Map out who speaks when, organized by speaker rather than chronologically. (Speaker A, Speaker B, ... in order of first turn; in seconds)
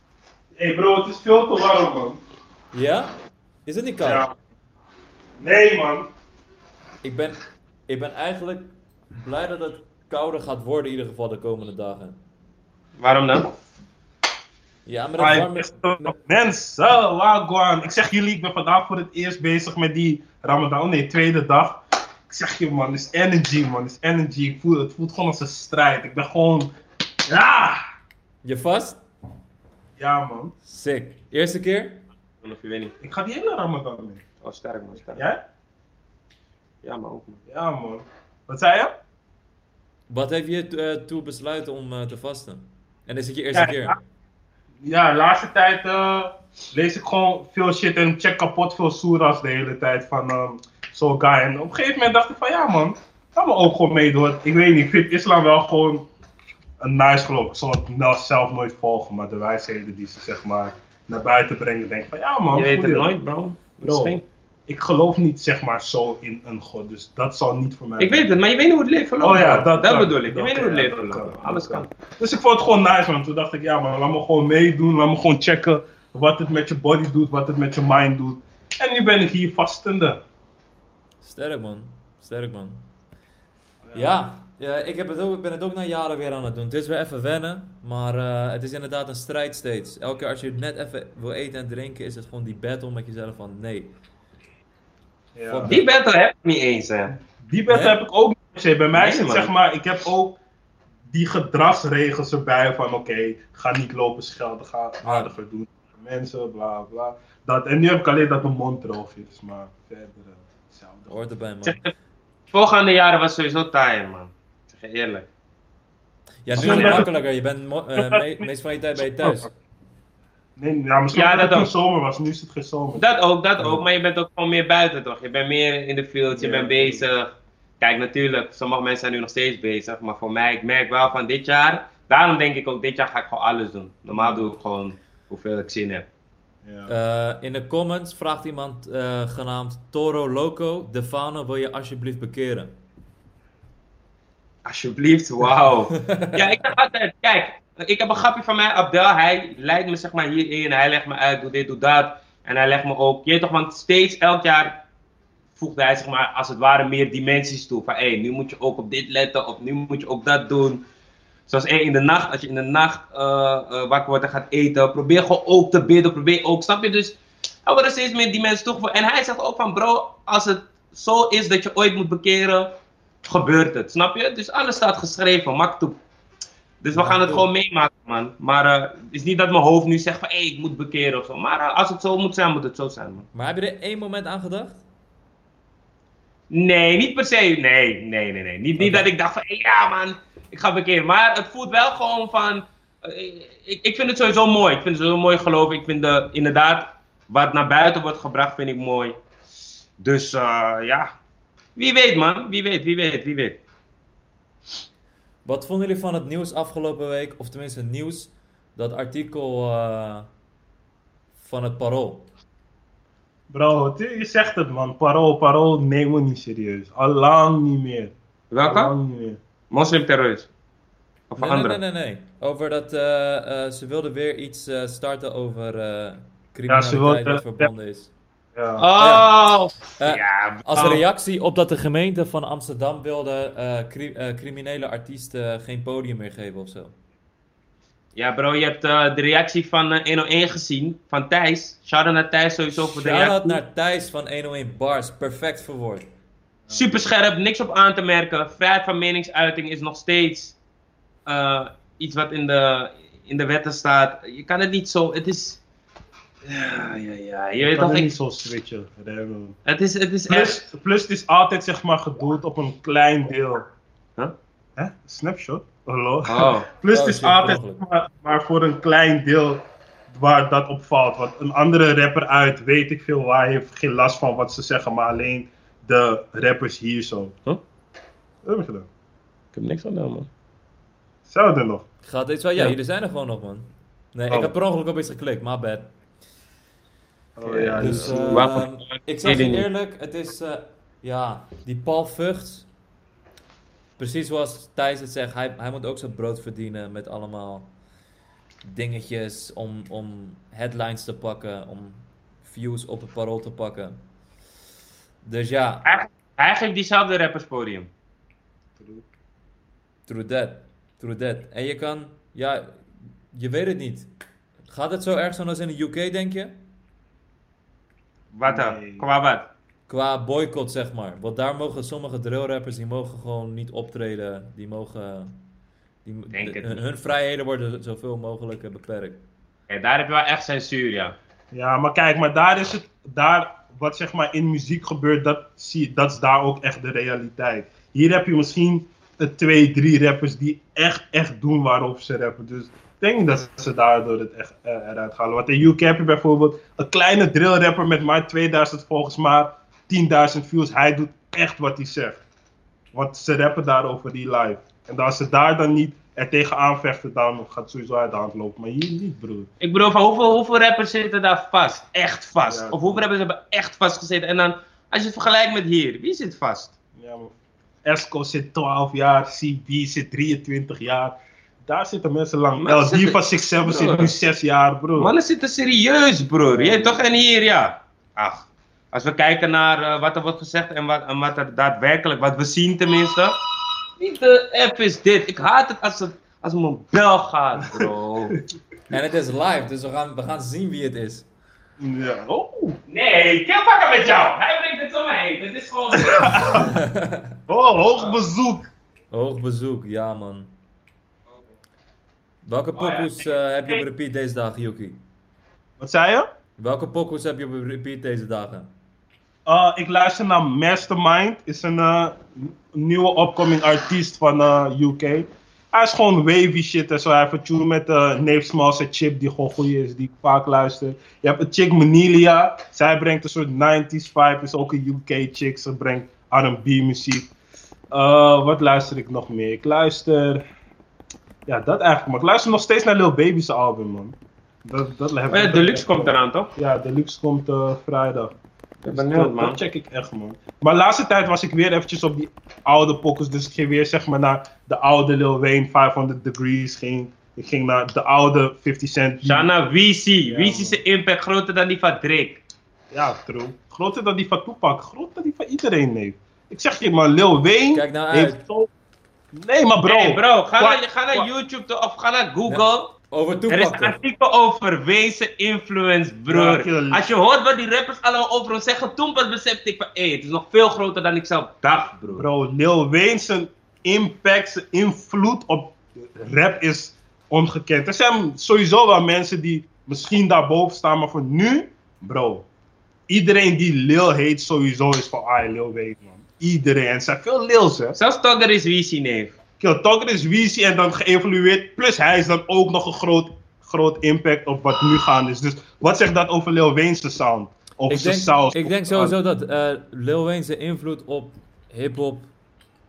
Speaker A: 0.6-2.2, 4.0-4.3, 5.4-6.1, 15.2-26.7, 27.3-27.8, 30.0-30.6, 33.0-34.2, 35.1-35.4, 37.5-39.0, 44.8-56.1, 56.8-63.2, 63.8-68.3, 69.2-80.2, 83.8-84.1, 95.3-95.8, 97.4-100.4, 101.1-111.2, 116.5-117.1, 120.6-123.2, 126.3-127.0, 134.1-134.4, 136.7-136.9, 213.5-218.2, 218.7-219.4, 226.7-227.7, 228.6-228.9, 256.5-257.0, 257.6-259.6, 260.3-263.7, 264.8-277.4, 278.4-278.9, 281.3-281.9, 287.4-288.5, 308.8-309.0, 318.5-319.1, 331.5-352.2, 352.9-359.5, 362.5-362.8, 367.0-367.3, 367.9-375.1, 376.5-377.0, 391.8-392.8, 395.9-396.7, 397.5-398.7, 405.8-406.3, 409.5-427.3, 427.9-430.4, 431.5-438.3, 438.9-449.5, 450.3-450.8, 452.9-458.7, 459.3-461.3, 466.3-467.1, 472.1-482.5, 483.1-488.0, 489.6-499.1
Speaker B: 2.7-3.1, 3.7-4.3, 7.0-8.7, 9.2-12.2, 14.9-16.2, 28.4-29.0, 30.6-32.0, 40.1-44.0, 81.2-82.8, 83.9-93.9, 95.5-95.8, 97.7-98.0, 105.0-105.3, 111.1-111.8, 116.4-119.5, 136.9-142.7, 146.0-146.7, 176.9-177.5, 183.3-184.8, 188.8-189.1, 205.4-210.3, 211.4-212.3, 221.4-228.1, 229.0-229.3, 230.0-236.9, 242.8-246.1, 266.9-267.8, 282.0-285.9, 287.8-292.7, 294.0-297.7, 298.6-304.0, 305.2-306.0, 310.1-312.8, 313.3-314.1, 314.7-316.6, 319.9-325.4, 326.1-329.2, 388.9-391.3, 396.5-397.4, 399.1-400.5, 402.4-405.0, 406.6-408.7, 457.7-458.4, 462.5-464.0, 497.9-502.3
Speaker C: 13.0-13.5, 32.4-32.9, 34.4-35.3, 36.8-37.4, 62.5-64.2, 68.0-71.9, 95.7-97.1, 98.9-99.5, 111.7-111.9, 112.5-115.3, 116.6-117.0, 121.1-121.7, 123.0-136.1, 144.7-154.8, 155.6-160.8, 161.5-176.0, 176.8-183.3, 186.5-199.2, 200.0-201.1, 201.8-203.6, 218.5-218.9, 219.7-220.5, 221.3-221.8, 228.8-231.0, 238.2-243.6, 246.7-250.6, 251.3-255.6, 256.6-258.1, 259.7-260.6, 266.3-266.7, 279.6-280.3, 287.4-289.6, 305.9-307.9, 318.3-319.5, 326.3-326.8, 329.7-331.2, 359.6-366.7, 372.6-374.1, 375.0-383.4, 384.0-388.4, 392.9-396.6, 402.8-403.8, 435.3-436.5, 438.8-439.6, 449.2-452.4, 459.9-462.9, 463.5-472.3, 488.0-489.4